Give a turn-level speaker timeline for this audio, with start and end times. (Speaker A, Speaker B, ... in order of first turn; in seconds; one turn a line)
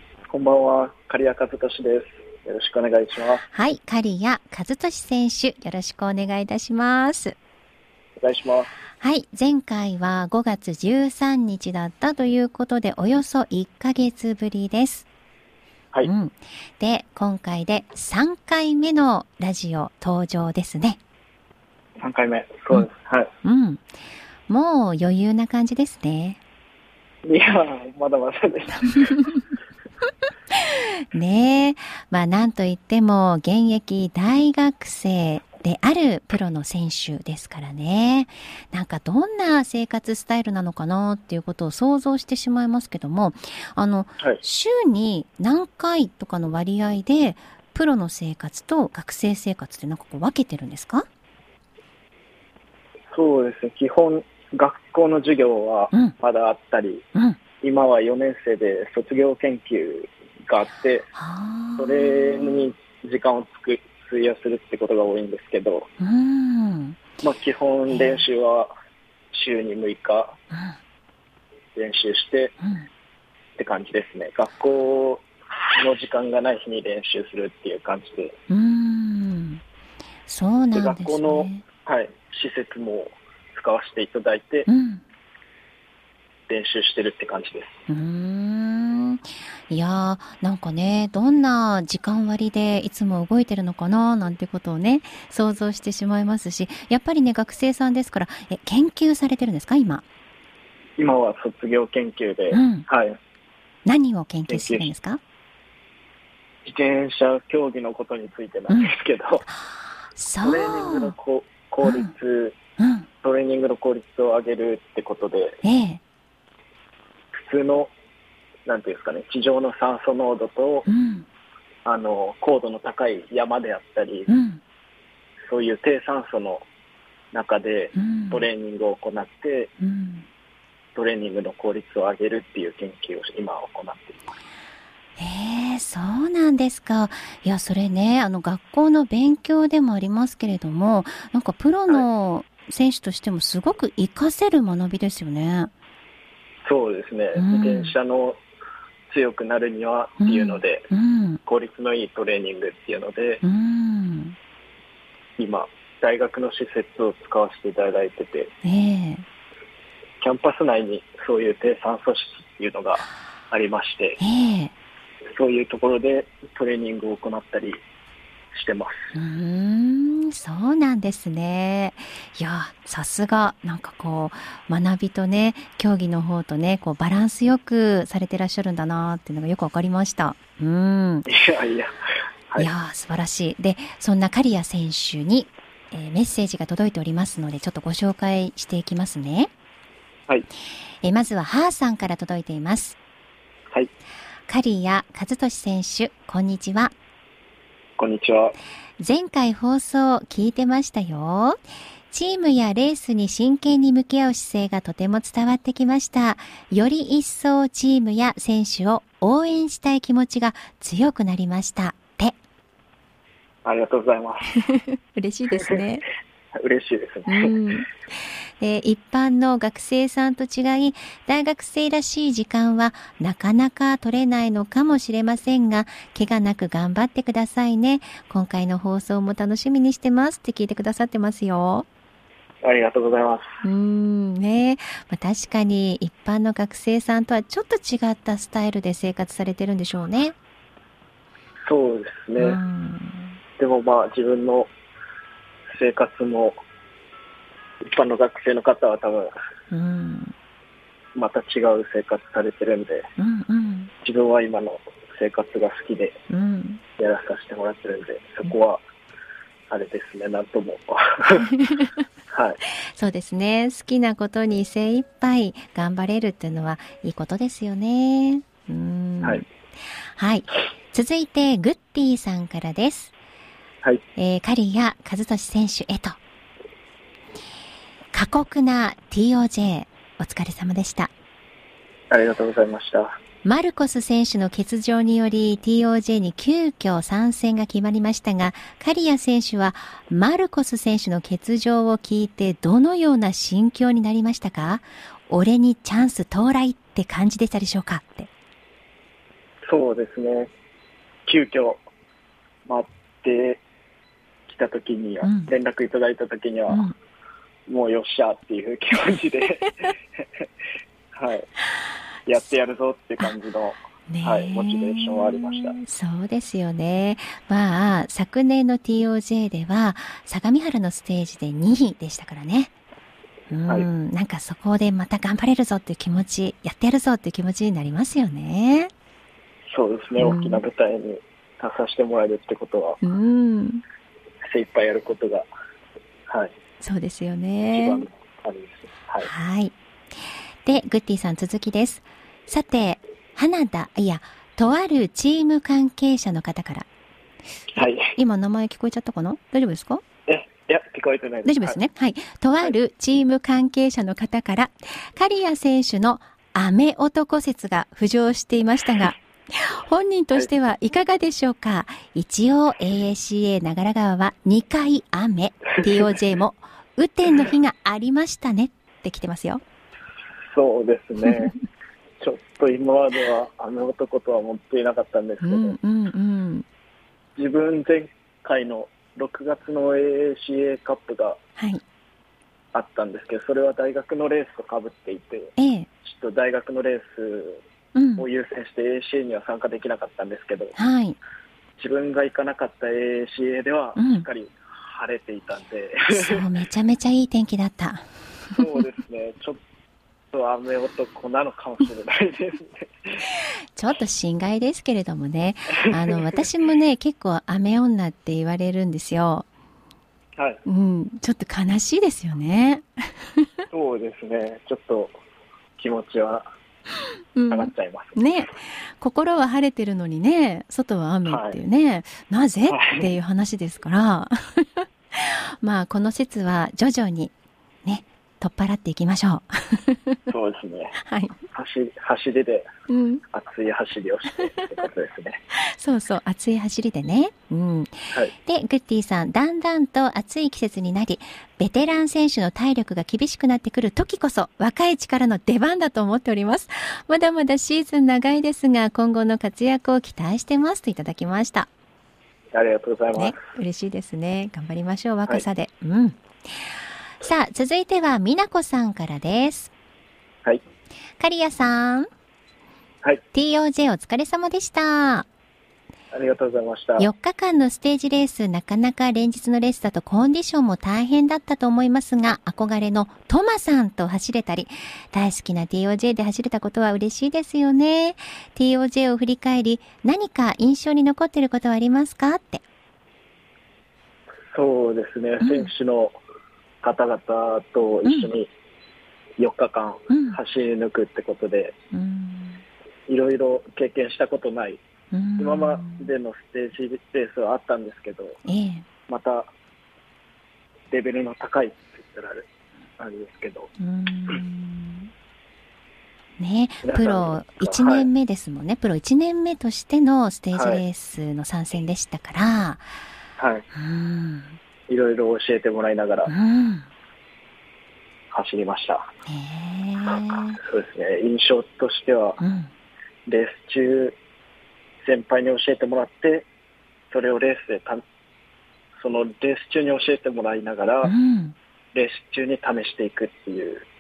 Speaker A: 0.3-3.4
Speaker B: 3.5-7.4
Speaker A: 8.2-8.7
Speaker B: 9.0-15.1
Speaker B: 16.1-21.0
Speaker A: 22.0-23.3
Speaker B: 23.4-23.8
Speaker B: 24.5-26.4
Speaker A: 27.3-29.2
Speaker B: 30.5-51.1
Speaker A: 53.1-57.0
Speaker A: 57.6-61.1
Speaker B: 61.2-62.7
Speaker A: 61.8-65.9
Speaker B: 66.0-67.0
Speaker A: 67.2-68.7
Speaker B: 67.9-68.2
Speaker A: 69.3-70.3
Speaker A: 71.8-72.5
Speaker A: 73.6-78.3
Speaker B: 78.5-79.6
Speaker B: 80.3-81.6
Speaker A: 80.7-84.7
Speaker B: 84.7-85.0
Speaker A: 86.5-87.8
Speaker B: 87.9-100.0
Speaker A: 101.0-103.2
Speaker B: 102.5-102.9
Speaker B: 103.9-105.2
Speaker A: 104.5-104.9
Speaker A: 106.7-109.5
Speaker B: 110.2-111.1
Speaker A: 110.4-112.6
Speaker B: 111.8-112.1
Speaker B: 112.8-113.1
Speaker A: 113.2-115.6
Speaker B: 115.6-116.0
Speaker A: 117.3-117.9
Speaker A: 118.7-120.9
Speaker B: 120.9-121.3
Speaker A: 121.8-124.3
Speaker B: 124.3-124.6
Speaker A: 125.5-126.7
Speaker A: 127.3-129.7
Speaker B: 128.0-128.5
Speaker B: 129.8-130.2
Speaker A: 130.9-134.2
Speaker B: 135.2-145.7
Speaker A: 146.7-148.4
Speaker B: 147.3-147.9
Speaker A: 149.1-150.9
Speaker B: 150.2-151.4
Speaker A: 151.5-153.4
Speaker B: 153.4-154.4
Speaker A: 155.4-158.5
Speaker B: 158.6-159.2
Speaker A: 160.2-164.2
Speaker B: 164.2-164.7
Speaker A: 165.4-167.8
Speaker A: 168.5-169.1
Speaker B: 169.2-181.3
Speaker A: 181.3-181.9
Speaker B: 182.6-189.5
Speaker B: 191.0-193.0
Speaker B: 194.5-196.9
Speaker A: 198.0-198.6
Speaker B: 199.0-201.6
Speaker B: 202.1-212.3
Speaker A: 213.7-214.6
Speaker B: 214.5-216.1
Speaker A: 216.6-217.6
Speaker B: 217.3-217.9
Speaker B: 218.6-231.9
Speaker A: 232.6-233.4
Speaker B: 233.6-240.3
Speaker A: 241.7-242.6
Speaker B: 242.4-243.4
Speaker A: 243.6-244.7
Speaker A: 245.8-246.6
Speaker A: 247.8-249.3
Speaker B: 249.7-250.3
Speaker A: 251.2-253.1
Speaker B: 253.2-253.9
Speaker A: 254.0-256.2
Speaker B: 256.3-256.8
Speaker A: 257.0-258.8
Speaker A: 259.7-261.5
Speaker B: 261.6-261.9
Speaker A: 262.3-262.6
Speaker B: 263.0-269.5
Speaker B: 270.2-273.1
Speaker B: 274.2-276.2
Speaker B: 278.1-281.1
Speaker A: 282.1-283.1
Speaker B: 283.4-298.3
Speaker A: 299.7-300.5
Speaker A: 301.3-301.8
Speaker A: 302.7-303.6
Speaker A: 304.5-306.9
Speaker B: 305.2-305.5
Speaker B: 306.7-306.9
Speaker A: 307.7-310.2
Speaker A: 311.1-311.5
Speaker A: 312.3-315.8
Speaker B: 314.1-322.7
Speaker B: 323.5-328.9
Speaker A: 329.7-333.0
Speaker B: 330.2-330.6
Speaker B: 333.0-333.8
Speaker A: 334.5-335.5
Speaker B: 336.8-338.1
Speaker A: 337.7-339.3
Speaker B: 339.2-339.7
Speaker B: 340.7-346.9
Speaker A: 347.8-348.2
Speaker B: 347.8-350.0
Speaker A: 350.3-351.8
Speaker B: 351.4-369.6
Speaker A: 365.8-366.1
Speaker A: 370.6-371.6
Speaker A: 372.2-375.8
Speaker B: 375.4-376.7
Speaker A: 377.4-381.4
Speaker B: 381.6-381.8
Speaker A: 382.7-385.5
Speaker B: 385.6-385.9
Speaker A: 386.0-387.6
Speaker B: 387.9-388.2
Speaker A: 388.2-390.8
Speaker B: 390.8-391.2
Speaker A: 391.8-396.4
Speaker B: 394.0-394.3
Speaker B: 396.1-398.6
Speaker A: 398.6-399.6
Speaker A: 400.3-403.2
Speaker B: 403.3-409.5
Speaker A: 405.8-406.4
Speaker A: 410.4-410.6
Speaker B: 410.7-413.5
Speaker A: 413.7-415.2
Speaker A: 415.8-416.5
Speaker B: 417.4-427.3
Speaker A: 417.5-418.4
Speaker A: 421.3-421.6
Speaker A: 422.7-423.1
Speaker B: 427.9-430.2
Speaker A: 430.3-431.0
Speaker B: 431.0-431.4
Speaker A: 431.5-432.7
Speaker B: 432.9-433.2
Speaker A: 433.3-435.4
Speaker B: 435.6-451.7
Speaker A: 452.5-453.4
Speaker B: 453.1-456.2
Speaker B: 457.2-459.7
Speaker B: 461.2-462.1
Speaker B: 463.3-465.3
Speaker A: 466.1-467.1
Speaker B: 467.0-482.6
Speaker A: 484.5-486.2
Speaker B: 485.4-485.7
Speaker A: 486.8-488.5
Speaker B: 488.1-488.3
Speaker A: 489.4-491.7
Speaker B: 490.1-490.4
Speaker B: 491.9-492.6
Speaker A: 493.1-494.8
Speaker B: 495.1-496.1
Speaker A: 495.4-498.4
Speaker B: 498.5-498.9
Speaker A: 499.1-499.5
Speaker A: 500.9-502.5
Speaker A: 503.0-503.7
Speaker B: 503.8-505.1
Speaker B: 506.4-512.8
Speaker A: 506.8-508.1
Speaker A: 510.5-510.8
Speaker A: 513.4-513.7
Speaker B: 513.7-514.6
Speaker A: 514.9-516.3
Speaker B: 516.3-516.9
Speaker A: 518.3-519.1
Speaker B: 519.3-520.6
Speaker A: 520.6-522.4
Speaker B: 522.4-522.7
Speaker A: 523.3-524.2
Speaker A: 525.0-526.5
Speaker A: 527.1-528.0
Speaker A: 529.0-531.1
Speaker B: 531.0-531.5
Speaker A: 531.9-533.9